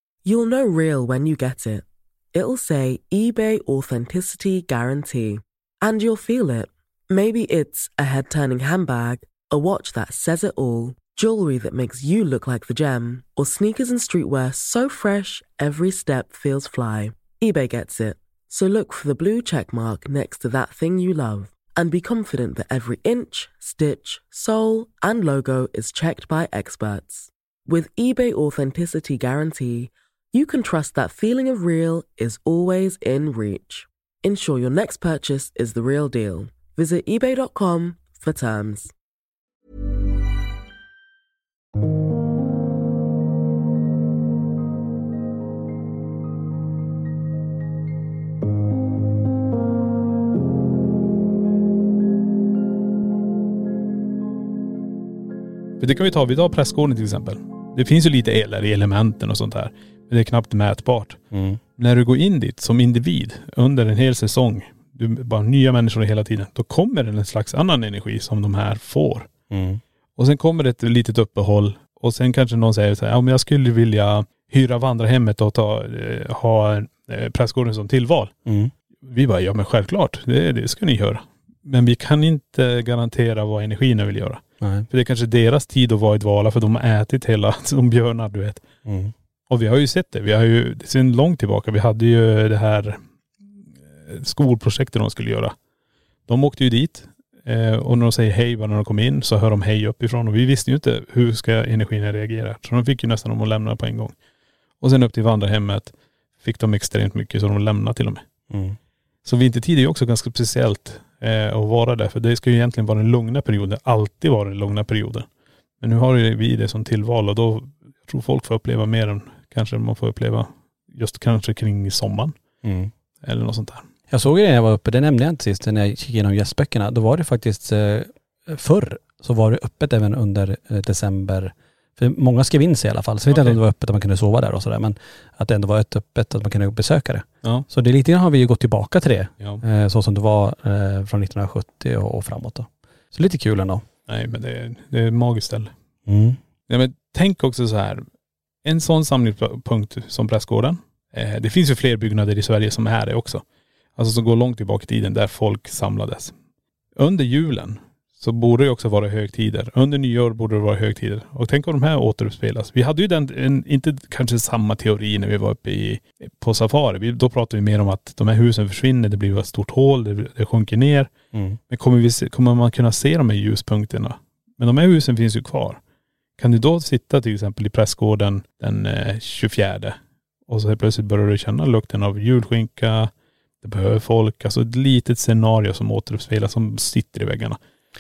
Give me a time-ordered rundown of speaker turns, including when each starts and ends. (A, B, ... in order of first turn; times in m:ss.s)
0:00.2-0:38.9 A
0:55.8-1:01.2 B
1:01.3-1:01.6 C
1:01.8-1:09.3 B
1:09.5-1:09.8 C
1:10.2-1:18.3 B
1:18.5-1:18.7 C
1:19.1-1:28.6 B
1:24.6-1:24.9 C
1:28.8-1:29.1 C
1:29.5-1:33.0 B
1:34.1-1:35.5 B
1:36.3-1:44.1 B
1:44.8-1:48.2 B
1:48.5-1:48.8 C
1:49.2-1:55.3 B
1:55.8-2:02.3 B
2:02.6-2:02.9 C
2:03.2-2:03.8 B
2:04.1-2:23.9 C
2:13.3-2:13.6 B
2:24.1-2:25.7 B
2:26.1-2:26.4 C
2:26.7-2:28.0 B
2:28.6-2:33.4 B
2:34.0-2:36.3 B
2:37.0-2:51.1 B
2:51.3-2:51.6 C
2:51.7-2:55.8 B
2:56.4-3:00.0 B
3:00.5-3:03.1 B
3:03.6-3:07.6 B